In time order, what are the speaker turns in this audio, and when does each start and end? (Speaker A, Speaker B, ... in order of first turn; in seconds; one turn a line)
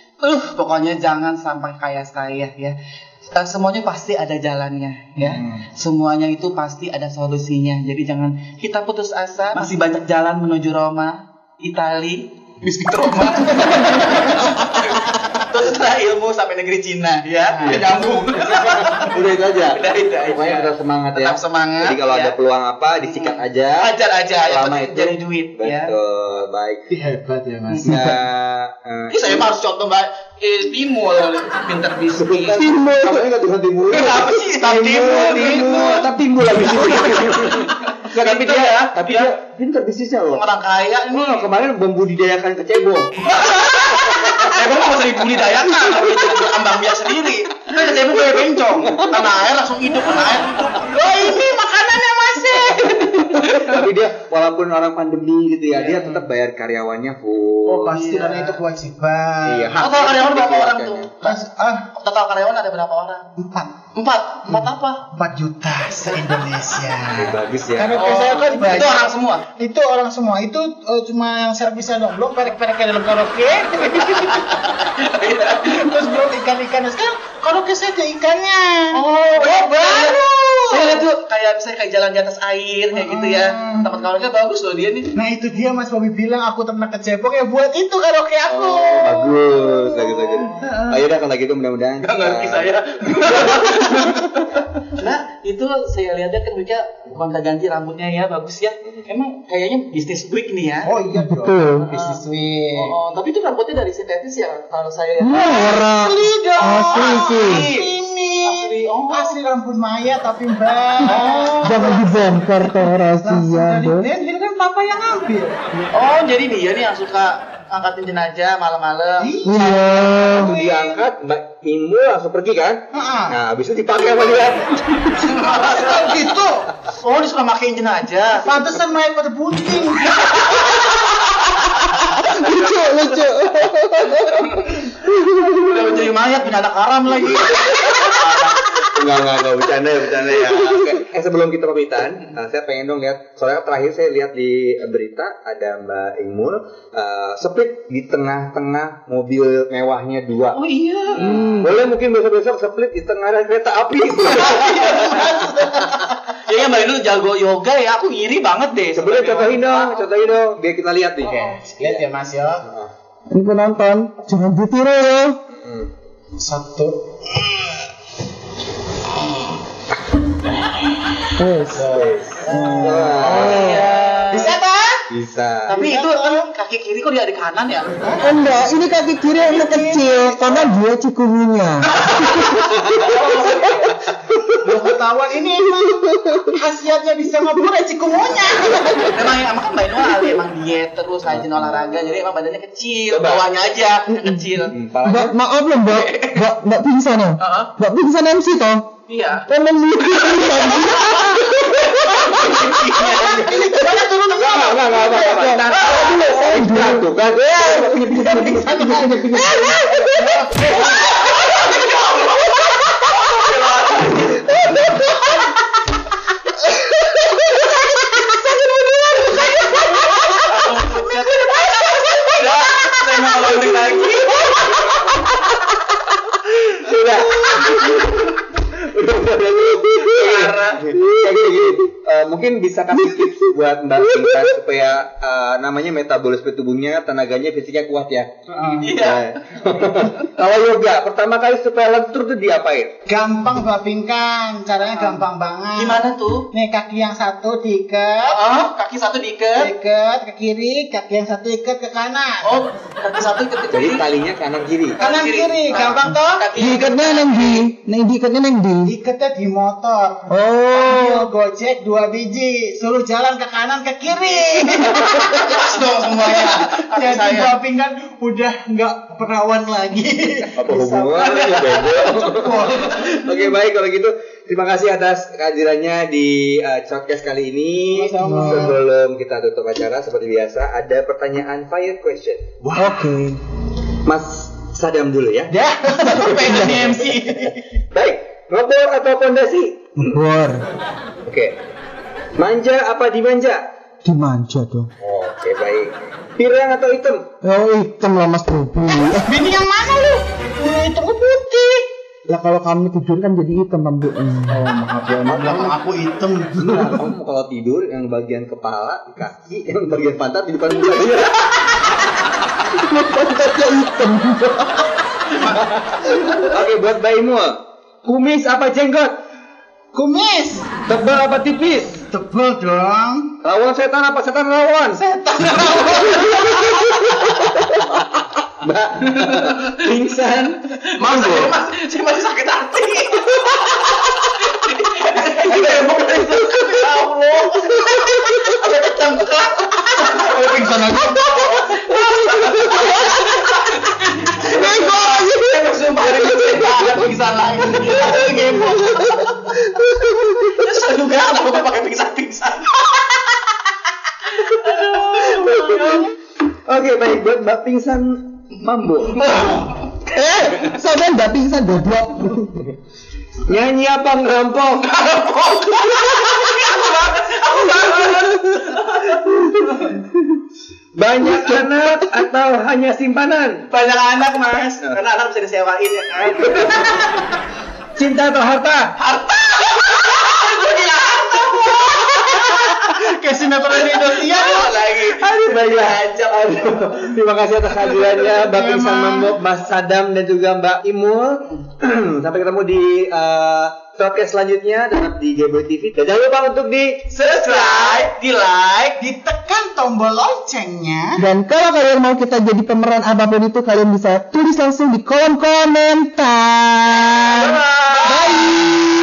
Speaker A: 0.2-2.8
Speaker A: 3.3-22.4
Speaker B: 17.6-19.8
Speaker B: 20.3-23.9
Speaker A: 23.0-25.9
Speaker B: 24.5-26.9
Speaker C: 26.9-28.2
Speaker A: 27.7-28.0
Speaker B: 27.9-29.5
Speaker A: 29.1-32.7
Speaker B: 32.1-40.5
Speaker D: 32.7-33.2
Speaker A: 33.9-36.1
Speaker A: 37.4-39.4
Speaker A: 40.3-41.5
Speaker B: 41.1-44.4
Speaker A: 43.2-51.5
Speaker B: 48.2-49.1
Speaker C: 48.4-48.7
Speaker C: 50.9-53.0
Speaker A: 52.3-53.9
Speaker B: 53.4-58.2
Speaker A: 55.7-56.3
Speaker C: 57.6-59.9
Speaker A: 57.9-58.6
Speaker B: 59.5-61.2
Speaker A: 59.8-61.3
Speaker C: 61.2-61.9
Speaker A: 61.9-63.2
Speaker C: 63.4-63.7
Speaker A: 64.0-65.0
Speaker C: 64.5-74.6
Speaker B: 67.1-68.0
Speaker A: 67.9-69.5
Speaker A: 73.9-76.1
Speaker C: 75.6-81.0
Speaker A: 78.9-85.1
Speaker C: 82.9-83.9
Speaker C: 85.2-91.1
Speaker A: 88.5-89.1
Speaker B: 88.9-92.7
Speaker A: 92.0-100.9
Speaker B: 93.3-94.2
Speaker C: 100.8-103.0
Speaker D: 101.2-101.9
Speaker A: 101.8-102.2
Speaker A: 102.8-105.8
Speaker D: 105.2-107.7
Speaker C: 105.3-112.4
Speaker A: 106.6-107.9
Speaker A: 108.4-109.4
Speaker A: 111.0-111.8
Speaker D: 111.6-114.1
Speaker C: 113.2-115.9
Speaker A: 115.9-119.5
Speaker C: 119.2-120.9
Speaker D: 119.5-120.6
Speaker B: 120.3-125.1
Speaker A: 120.4-121.0
Speaker C: 122.9-123.4
Speaker A: 125.2-126.4
Speaker C: 125.5-126.7
Speaker A: 126.9-128.6
Speaker C: 128.4-130.6
Speaker A: 130.2-133.5
Speaker D: 132.2-134.5
Speaker A: 134.0-135.0
Speaker D: 135.1-135.8
Speaker A: 135.6-138.7
Speaker B: 138.8-150.6
Speaker A: 150.5-151.3
Speaker B: 151.2-155.9
Speaker C: 154.2-156.2
Speaker A: 154.2-155.4
Speaker A: 156.3-160.1
Speaker B: 158.9-162.1
Speaker C: 161.2-162.6
Speaker B: 162.6-162.9
Speaker D: 163.3-165.4
Speaker B: 165.5-165.9
Speaker C: 166.4-167.8
Speaker D: 171.4-171.8
Speaker C: 171.7-175.0
Speaker B: 171.9-173.7
Speaker D: 172.5-172.8
Speaker A: 173.3-174.6
Speaker D: 173.4-173.8
Speaker B: 175.1-175.8
Speaker C: 175.7-176.5
Speaker A: 175.7-178.3
Speaker C: 178.0-178.3
Speaker D: 178.2-182.6
Speaker C: 179.5-180.6
Speaker A: 181.9-184.1
Speaker B: 182.8-184.6
Speaker C: 184.6-189.1
Speaker D: 186.0-186.5
Speaker A: 189.0-194.8
Speaker B: 191.3-192.2
Speaker B: 193.1-193.5
Speaker B: 194.7-195.4
Speaker D: 195.0-198.9
Speaker A: 195.9-196.4
Speaker A: 197.4-197.7
Speaker A: 199.1-199.5
Speaker D: 199.5-201.5
Speaker A: 200.0-203.6
Speaker B: 202.4-203.2
Speaker C: 203.0-206.0
Speaker B: 204.3-210.2
Speaker D: 205.3-207.7
Speaker A: 205.4-206.5
Speaker C: 208.5-211.2
Speaker A: 210.9-214.6
Speaker A: 220.2-225.1
Speaker B: 223.6-223.8
Speaker B: 224.4-224.8
Speaker B: 226.3-238.3
Speaker A: 227.3-228.3
Speaker A: 229.9-230.9
Speaker C: 238.5-239.0
Speaker A: 238.8-239.3
Speaker B: 238.9-242.9
Speaker C: 243.1-248.4
Speaker A: 244.8-246.5
Speaker A: 248.3-249.7
Speaker C: 249.6-252.5
Speaker A: 252.4-254.1
Speaker B: 253.7-255.0
Speaker A: 255.0-257.7
Speaker C: 255.0-256.4
Speaker B: 255.7-256.1
Speaker D: 256.6-258.9
Speaker C: 258.9-265.8
Speaker D: 260.3-261.3
Speaker A: 264.6-267.6
Speaker B: 264.9-265.2
Speaker C: 266.3-271.1
Speaker B: 270.5-282.6
Speaker A: 270.9-272.0
Speaker C: 271.7-273.0
Speaker A: 272.8-273.1
Speaker C: 277.9-278.8
Speaker D: 278.2-278.6
Speaker C: 282.7-283.0
Speaker D: 282.8-283.4
Speaker B: 284.0-285.5
Speaker C: 285.5-286.6
Speaker A: 285.9-287.7
Speaker B: 286.2-286.6
Speaker D: 286.5-287.0
Speaker B: 287.9-290.1
Speaker D: 290.1-290.7
Speaker B: 291.2-291.6
Speaker B: 292.4-293.6
Speaker D: 294.0-294.9
Speaker B: 295.0-297.3
Speaker D: 297.4-299.3
Speaker C: 298.9-301.9
Speaker D: 302.3-304.6
Speaker C: 304.5-307.0
Speaker B: 305.3-305.8
Speaker B: 306.6-311.8
Speaker D: 312.7-314.9
Speaker A: 315.3-316.6
Speaker B: 315.7-319.2
Speaker C: 319.9-320.7
Speaker B: 320.9-322.1
Speaker C: 322.1-323.4
Speaker B: 323.4-325.0
Speaker C: 325.0-326.8
Speaker A: 325.1-327.4
Speaker B: 326.0-331.5
Speaker A: 329.0-349.4
Speaker D: 344.6-345.5
Speaker A: 350.3-353.4
Speaker A: 354.2-356.1
Speaker B: 354.7-359.3
Speaker A: 359.1-360.7
Speaker D: 360.1-362.6
Speaker B: 363.4-364.9
Speaker A: 364.8-370.0
Speaker B: 367.5-368.6
Speaker B: 369.3-369.6
Speaker B: 371.0-373.6
Speaker A: 371.2-371.8
Speaker A: 373.7-377.3
Speaker B: 378.0-378.9
Speaker A: 379.0-388.0
Speaker C: 382.5-384.7
Speaker B: 385.2-397.1
Speaker C: 387.9-389.4
Speaker A: 397.1-399.0
Speaker C: 397.6-398.0
Speaker C: 399.0-401.2
Speaker D: 401.2-407.4
Speaker A: 407.3-408.4
Speaker B: 407.4-407.6
Speaker C: 407.9-408.9